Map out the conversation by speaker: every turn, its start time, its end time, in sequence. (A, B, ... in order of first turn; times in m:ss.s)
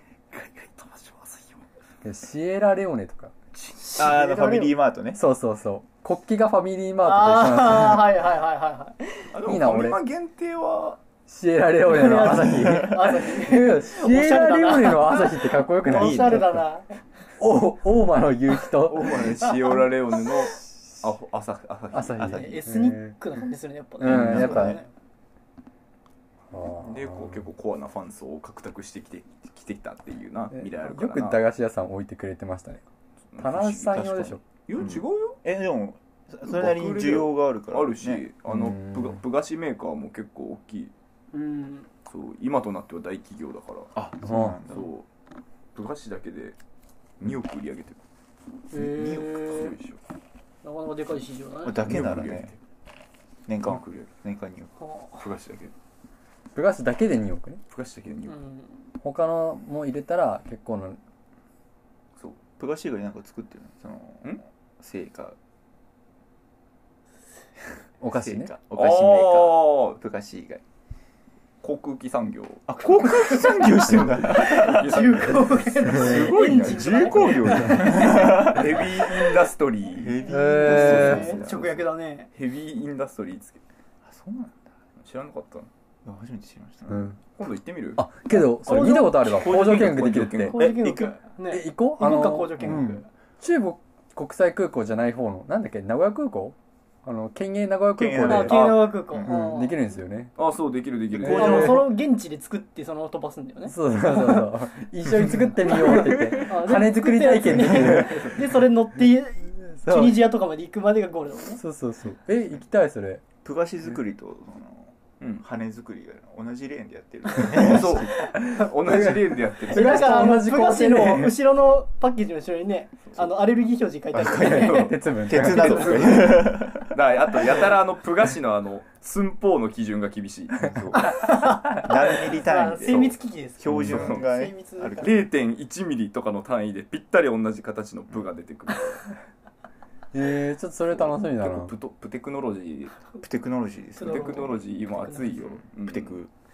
0:00.3-0:01.6 A
0:02.0-0:03.3 B
0:03.5-0:04.0 A
0:03.8-0:04.8 C
0:03.9-0:05.2 D
0:05.1-0:08.0 B
0:07.0-0:09.3 C
0:09.3-0:11.0 A
0:09.4-0:10.0 B
0:11.3-0:16.6 B
0:11.8-0:17.0 C
0:15.9-0:16.4 D
0:17.4-0:19.2 B
0:18.7-0:22.6 A
0:21.9-0:23.2 B
0:22.2-0:24.9 C
0:24.0-0:24.8 B
0:24.0-0:24.8 D
0:26.5-0:27.4 B
0:26.8-0:31.4 A
0:30.5-0:32.8 B
0:33.3-0:35.4 A
0:33.4-0:34.4 B
0:34.8-0:38.3 D
0:36.4-0:40.9 A
0:38.5-0:39.2 B
0:41.3-0:41.9 C
0:42.0-0:44.0 A
0:43.9-0:44.9 D
0:44.2-0:44.6 B
0:44.7-0:45.0 A
0:45.7-0:46.6 A
0:47.2-0:48.0 A
0:48.7-0:49.8 C
0:48.9-0:50.0 A
0:50.6-0:51.9 C
0:51.6-0:52.5 D
0:51.8-0:52.6 A
0:53.5-0:54.7 D
0:53.6-0:54.1 A
0:54.8-0:55.2 C
0:55.2-0:55.7 A
0:56.5-0:57.6 B
0:57.7-0:58.4 A
0:58.2-0:58.8 C
0:59.0-1:01.0 B
1:02.6-1:05.4 D
1:08.0-1:08.5 B
1:08.1-1:10.6 D
1:08.7-1:10.0 A
1:11.6-1:21.7 A
1:12.7-1:15.3 D
1:12.9-1:13.5 C
1:14.3-1:18.1 C
1:15.8-1:21.8 D
1:20.3-1:21.3 B
1:20.3-1:22.3 C
1:22.3-1:23.6 A
1:24.0-1:24.7 D
1:25.0-1:25.7 A
1:26.0-1:27.1 D
1:26.9-1:27.2 B
1:27.3-1:28.0 A
1:27.9-1:30.6 B
1:28.3-1:29.7 C
1:28.6-1:29.0 D
1:29.3-1:30.7 A
1:29.7-1:31.2 D
1:30.5-1:33.0 C
1:31.5-1:40.3 B
1:32.6-1:32.8 D
1:37.9-1:39.4 D
1:38.2-1:39.9 C
1:40.4-1:41.9 A
1:41.1-1:44.5 C
1:41.2-1:41.9 B
1:43.7-1:48.4 B
1:45.6-1:51.6 C
1:45.8-1:46.4 A
1:47.8-1:48.4 A
1:49.6-1:50.2 B
1:51.5-1:53.2 B
1:53.4-1:58.3 D
1:57.4-2:01.3 A
1:58.8-2:01.3 B
1:59.7-2:05.0 C
2:03.0-2:03.4 A
2:04.1-2:11.0 A
2:04.2-2:06.2 B
2:05.2-2:07.6 D
2:10.6-2:15.2 D
2:10.9-2:15.2 C
2:12.7-2:14.3 A
2:15.0-2:19.1 A
2:20.1-2:21.7 B
2:20.9-2:23.0 A
2:23.2-2:24.6 D
2:24.0-2:25.4 C
2:24.0-2:26.2 A
2:25.3-2:26.3 D